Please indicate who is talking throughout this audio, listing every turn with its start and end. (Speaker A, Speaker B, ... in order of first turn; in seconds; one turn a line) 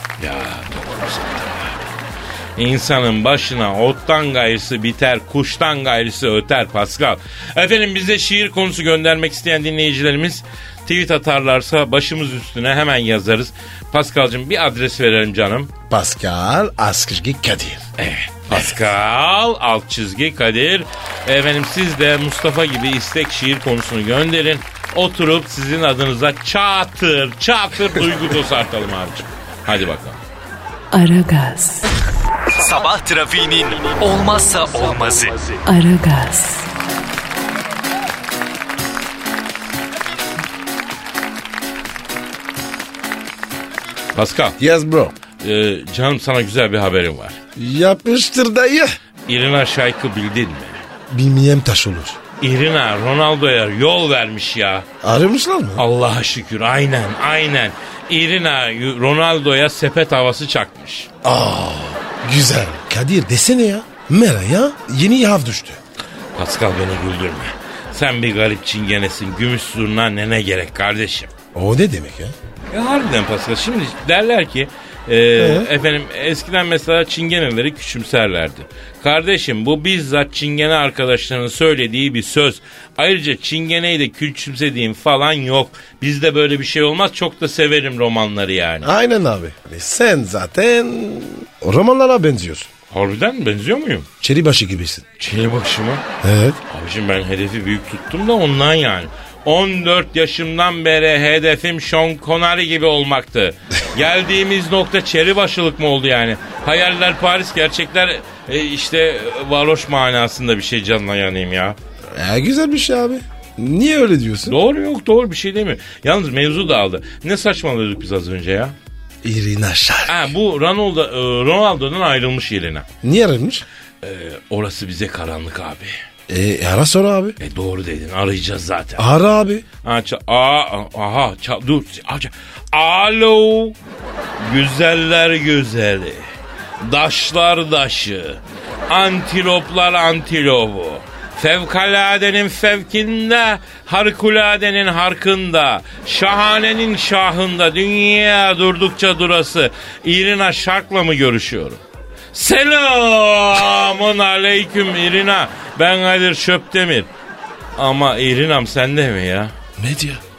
Speaker A: 0.2-1.9
Speaker A: 2.6-15.7
Speaker B: 15.9-17.8
Speaker A: 18.0-30.2
Speaker C: 30.9-31.9
Speaker D: 32.5-35.6
Speaker C: 35.6-36.7
Speaker A: 44.1-44.6
Speaker B: 44.6-45.1
Speaker A: 45.4-47.4
Speaker B: 47.5-48.9
Speaker A: 49.3-50.8
Speaker B: 51.1-52.2
Speaker A: 52.4-54.9
Speaker B: 55.0-55.8
Speaker A: 55.8-61.1
Speaker B: 61.2-65.8
Speaker A: 66.3-71.3
Speaker B: 71.5-72.3
Speaker A: 72.7-88.9
Speaker B: 75.4-75.7
Speaker B: 88.8-92.7
Speaker A: 92.9-94.1
Speaker B: 94.2-95.0
Speaker A: 95.2-96.0
Speaker B: 96.2-96.6
Speaker A: 96.7-111.8
Speaker B: 112.1-114.6
Speaker A: 114.5-118.7
Speaker B: 119.2-120.3
Speaker A: 120.1-122.8
Speaker B: 123.0-123.7
Speaker A: 124.0-125.9
Speaker B: 126.3-127.4
Speaker A: 127.4-129.1
Speaker B: 129.0-129.6
Speaker A: 129.8-133.8
Speaker A: 134.4-136.3
Speaker A: 136.8-151.8
Speaker A: 152.3-157.1
Speaker A: 157.8-159.5
Speaker B: 159.8-160.2